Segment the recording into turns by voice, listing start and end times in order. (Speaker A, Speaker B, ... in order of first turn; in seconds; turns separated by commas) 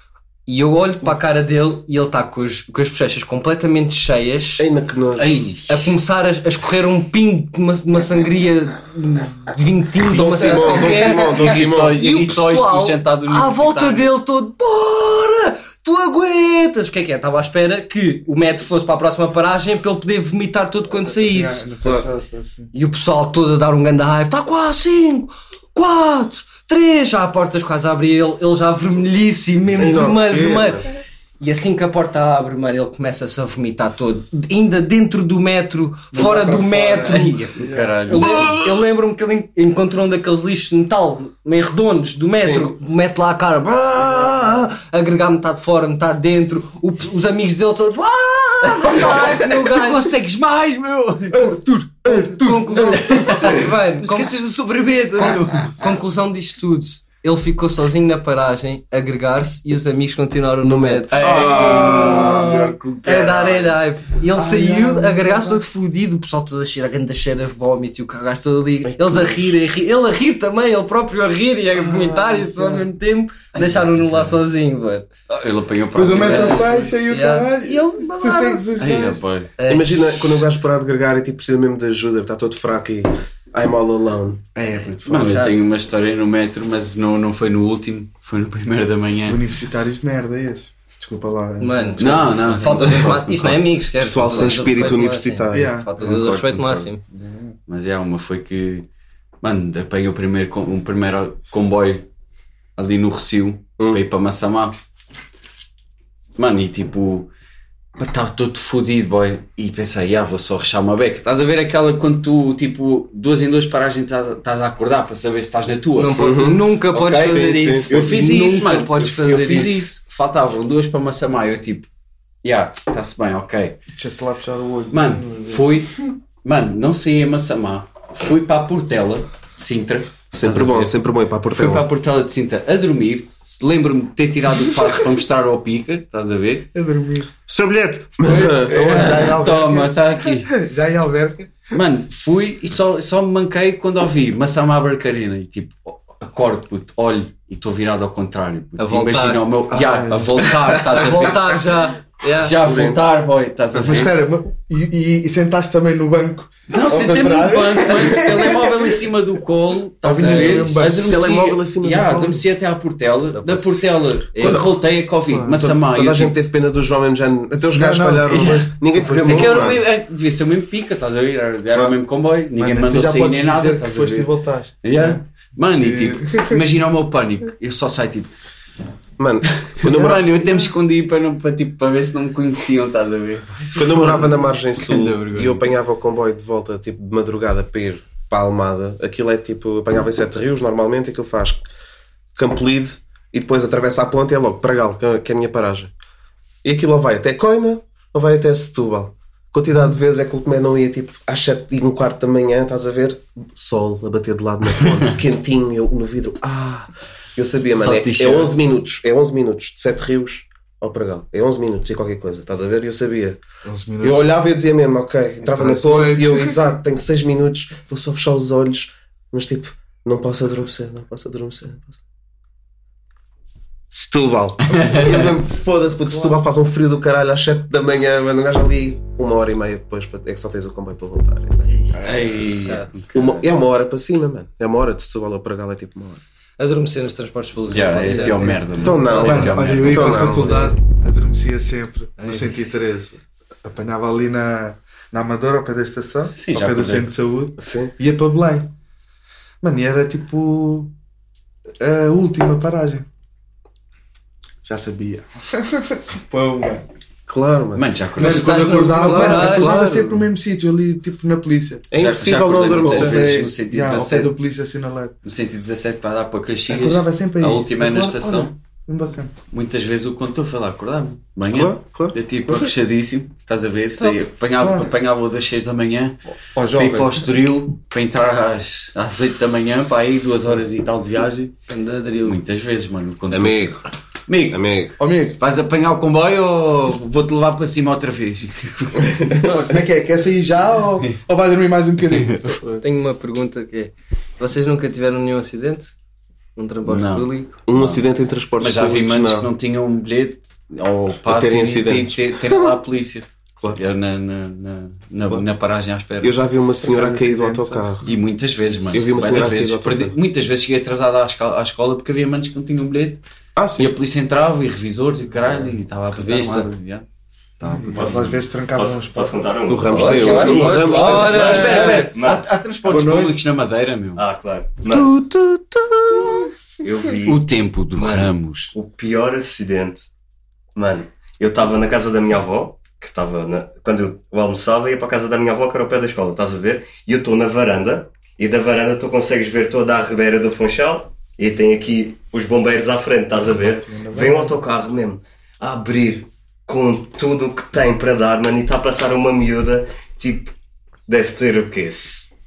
Speaker A: 0.5-4.7, Speaker B: 4.6-5.3, Speaker C: 5.2-5.9, Speaker A: 5.7-21.6, Speaker B: 10.1-12.2, Speaker D: 10.4-10.8, Speaker C: 10.7-14.1, Speaker D: 21.0-22.7, Speaker A: 22.7-37.4, Speaker B: 29.7-30.8, Speaker D: 36.1-38.0, Speaker C: 37.0-38.5, Speaker A: 38.1-50.2, Speaker B: 38.2-38.7, Speaker B: 42.4-42.7, Speaker C: 48.7-51.5, Speaker D: 51.3-53.7, Speaker A: 52.0-54.3, Speaker C: 52.8-55.7, Speaker A: 55.1-62.2, Speaker B: 60.6-62.5, Speaker C: 61.1-63.8, Speaker D: 61.4-62.7, Speaker A: 63.0-75.1, Speaker D: 64.3-65.6, Speaker B: 68.8-69.5, Speaker D: 71.7-72.8, Speaker C: 73.5-74.3, Speaker C: 75.3-76.8, Speaker D: 75.9-79.2, Speaker A: 76.1-78.7, Speaker C: 78.8-79.5, Speaker A: 79.6-80.5, Speaker B: 79.7-84.4, Speaker D: 84.5-85.6, Speaker C: 85.0-89.4, Speaker A: 85.1-85.7, Speaker D: 89.2-93.0, Speaker A: 91.6-97.0, Speaker C: 92.0-93.6, Speaker B: 94.0-95.8, Speaker C: 94.4-94.9, Speaker D: 95.5-96.3, Speaker C: 96.0-96.7, Speaker D: 97.1-97.5, Speaker C: 97.7-98.9, Speaker C: 99.4-102.0, Speaker C: 102.8-104.7, Speaker C: 106.4-107.3, Speaker C: 108.0-121.9, Speaker A: 116.0-119.9, Speaker B: 116.2-116.6, Speaker B: 117.2-118.1, Speaker C: 122.4-123.8, Speaker D: 124.0-125.8, Speaker C: 124.9-130.9, Speaker B: 130.3-131.8, Speaker C: 131.5-136.7, Speaker D: 136.7-137.3, Speaker B: 137.5-139.3, Speaker D: 138.2-141.8, Speaker C: 138.7-140.6, Speaker C: 141.7-151.6, Speaker A: 148.8-149.4, Speaker D: 149.7-150.9, Speaker A: 150.8-152.6, Speaker C: 152.4-154.2, Speaker B: 152.6-153.0, Speaker D: 153.7-158.9, Speaker C: 156.7-166.3, Speaker D: 160.0-161.1, Speaker B: 160.2-162.4, Speaker A: 163.3-163.7, Speaker A: 164.3-164.6, Speaker B: 164.4-164.7, Speaker D: 165.3-165.6, Speaker B: 165.5-169.8, Speaker D: 167.7-169.8, Speaker C: 168.3-174.3, Speaker D: 172.6-175.2, Speaker C: 174.8-178.3, Speaker D: 175.8-176.6, Speaker B: 179.2-180.3, Speaker C: 179.7-185.7, Speaker B: 183.7-191.6, Speaker B: 192.3-195.9, Speaker B: 196.6-213.4, Speaker C: 207.7-208.6, Speaker D: 213.6-214.3, Speaker B: 214.0-221.9, Speaker D: 215.4-216.8, Speaker B: 223.9-231.6, Speaker C: 224.7-225.2, Speaker A: 231.6-233.3, Speaker C: 232.0-233.4, Speaker B: 233.1-236.2, Speaker A: 236.6-239.5, Speaker C: 237.7-240.7, Speaker D: 238.0-248.7, Speaker B: 238.8-240.7, Speaker A: 242.2-242.5, Speaker C: 246.3-247.1, Speaker B: 247.6-247.9, Speaker D: 249.6-250.9, Speaker D: 251.8-253.1, Speaker D: 254.6-256.8, Speaker B: 257.3-257.9, Speaker C: 257.7-258.9, Speaker D: 258.2-261.9, Speaker A: 258.2-259.8, Speaker B: 259.0-260.2, Speaker B: 261.9-263.3, Speaker C: 261.9-264.3, Speaker D: 262.8-265.1, Speaker C: 265.2-268.5, Speaker D: 266.7-269.3, Speaker C: 269.5-276.2, Speaker B: 271.5-272.7, Speaker D: 274.6-274.9, Speaker D: 276.5-277.3, Speaker C: 276.7-281.5, Speaker A: 281.7-282.4, Speaker C: 282.2-283.7, Speaker B: 283.3-283.8, Speaker C: 284.3-289.4, Speaker B: 284.5-284.9, Speaker D: 285.0-285.4, Speaker D: 289.4-292.6, Speaker A: 292.8-295.9, Speaker A: 296.6-297.6, Speaker C: 296.9-298.0, Speaker B: 297.7-299.5, Speaker C: 298.6-306.3, Speaker B: 301.3-302.7, Speaker B: 306.2-308.1, Speaker D: 306.8-308.1, Speaker C: 308.0-313.2, Speaker B: 308.9-310.1, Speaker B: 313.6-313.9, Speaker C: 313.8-317.0, Speaker A: 316.1-316.7, Speaker C: 317.6-318.3, Speaker D: 317.6-321.6, Speaker E: 317.9-323.1, Speaker B: 319.7-321.5, Speaker C: 320.0-324.2, Speaker A: 320.8-322.1, Speaker D: 322.9-323.3, Speaker E: 324.1-325.1, Speaker C: 324.9-326.5, Speaker E: 326.8-327.4, Speaker C: 327.2-328.7, Speaker E: 327.9-330.1, Speaker E: 330.7-350.5, Speaker D: 343.8-344.5, Speaker E: 351.1-352.3